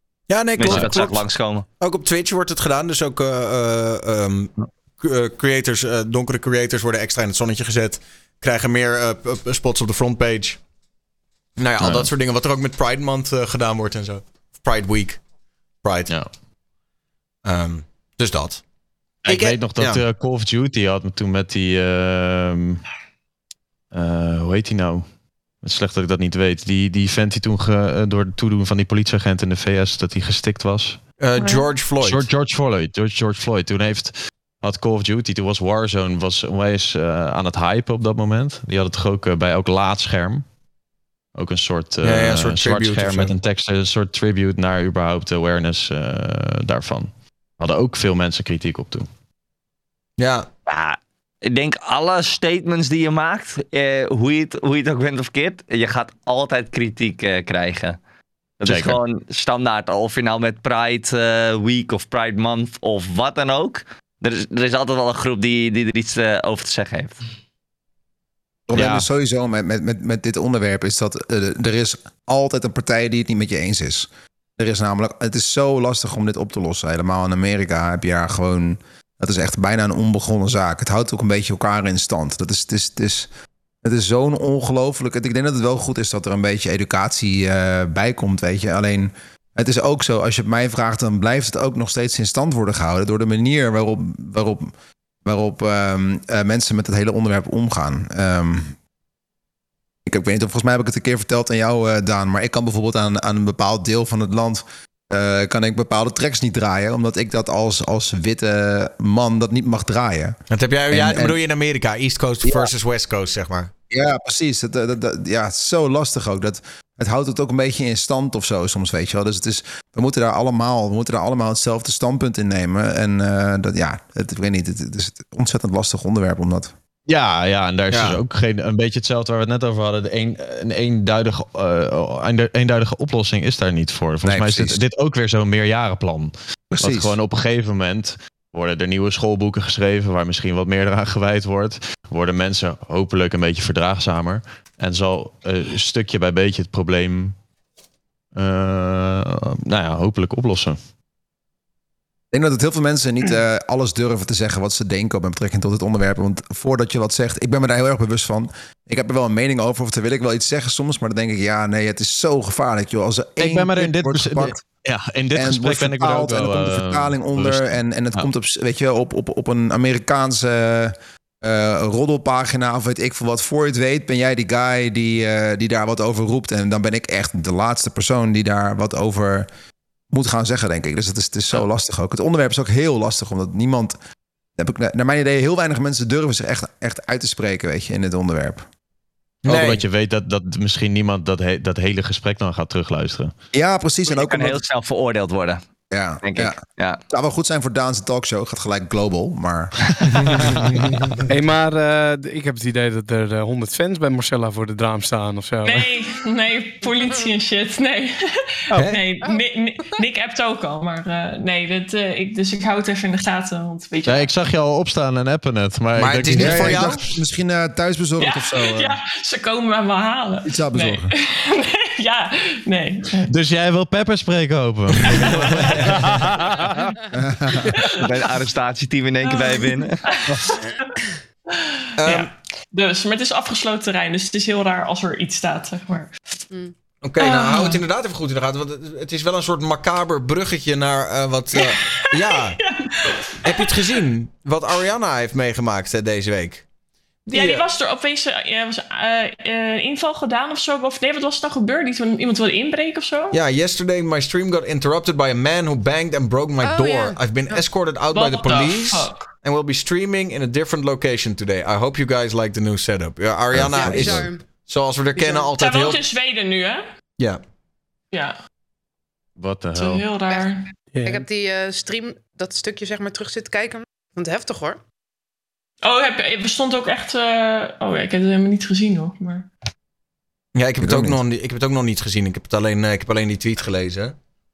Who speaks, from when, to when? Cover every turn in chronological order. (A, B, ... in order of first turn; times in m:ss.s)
0:00.3-0:01.3 A
0:00.6-0:01.6 B
0:00.6-0:01.0 C
0:01.8-0:10.6 A
0:11.6-0:15.2 A
0:11.8-0:12.1 C
0:15.8-0:16.1 A
0:17.4-0:18.6 A
0:19.2-0:20.0 A
0:19.2-0:22.8 C
0:23.9-0:25.1 C
0:25.6-0:31.0 C
0:31.2-0:32.3 A
0:31.4-0:31.6 D
0:32.0-0:40.4 C
0:41.4-0:49.1 C
0:42.0-0:43.3 A
0:50.2-0:50.5 A
0:50.7-0:58.0 B
0:58.6-1:07.2 B
0:58.6-0:59.0 C
1:08.7-1:23.3 E
1:08.7-1:09.1 C
1:23.8-1:34.7 E
1:35.2-1:38.8 E
1:40.0-1:50.4 E
1:50.5-1:53.7 A
1:50.9-1:51.4 E
1:52.4-1:52.7 E
1:53.9-2:06.7 E
2:07.1-2:27.4 C
2:07.9-2:08.2 A
2:14.2-2:14.8 E
2:16.7-2:17.1 E
2:28.3-2:30.8 C
2:32.3-2:44.6 E
2:43.4-2:48.3 C
2:45.3-2:59.5 E
3:00.1-3:03.9 E
3:04.6-3:08.6 E
3:09.4-3:13.3 C
3:09.5-3:09.8 A
3:13.5-3:14.6 E
3:14.1-3:15.6 B
3:15.9-3:20.8 E
3:16.2-3:17.0 B
3:20.1-3:20.7 A
3:21.3-3:25.9 F
3:25.6-3:34.3 D
3:26.8-3:27.3 G
3:28.7-3:29.0 A
3:34.0-3:37.0 C
3:36.0-3:37.0 A
3:36.3-3:39.0 E
3:38.2-3:43.3 D
3:40.4-3:41.1 E
3:43.3-3:45.7 C
3:44.9-3:45.7 A
3:45.0-3:45.8 D
3:46.0-3:46.7 F
3:47.1-3:47.9 E
3:48.0-3:50.0 B
3:49.2-3:50.9 D
3:51.5-3:56.2 D
3:52.0-3:52.3 A
3:57.0-4:02.6 A
3:57.2-3:57.8 D
4:01.6-4:03.8 D
4:03.4-4:06.6 A
4:07.2-4:07.6 A
4:07.3-4:13.4 D
4:13.3-4:26.0 A
4:16.6-4:17.2 G
4:18.1-4:19.3 D
4:23.5-4:24.3 E
4:23.7-4:24.4 G
4:25.2-4:25.5 G
4:25.6-4:26.8 D
4:29.4-4:30.0 C
4:29.8-4:30.6 D
4:30.9-4:31.2 F
4:31.0-4:34.8 G
4:35.8-4:39.5 D
4:40.5-4:44.1 A
4:40.8-4:41.2 E